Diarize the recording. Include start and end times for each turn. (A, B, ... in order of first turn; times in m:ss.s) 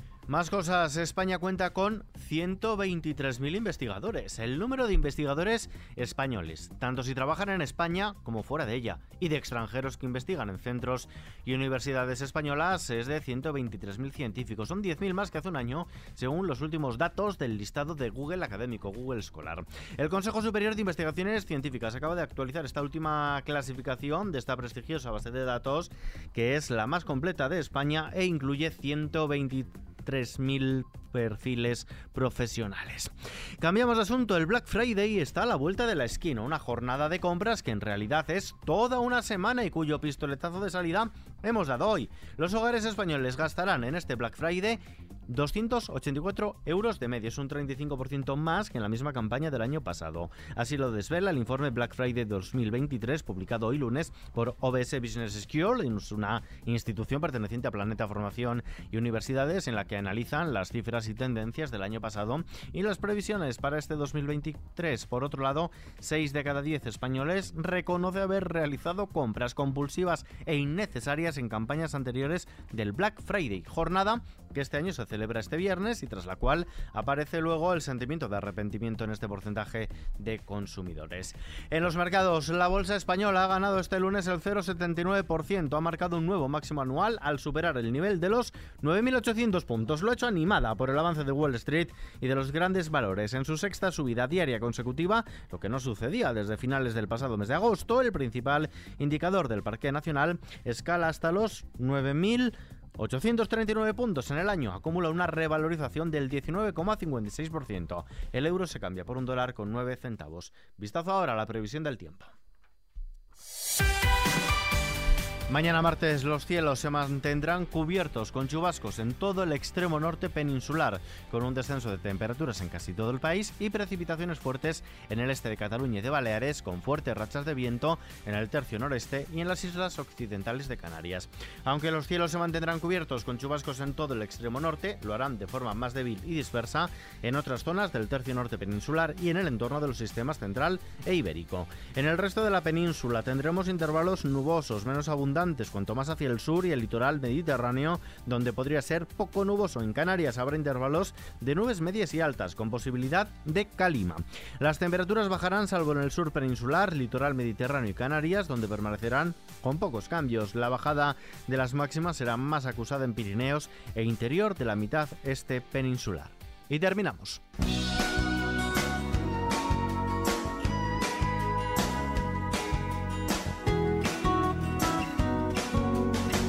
0:00.3-1:52.3 A
1:55.5-2:47.4 A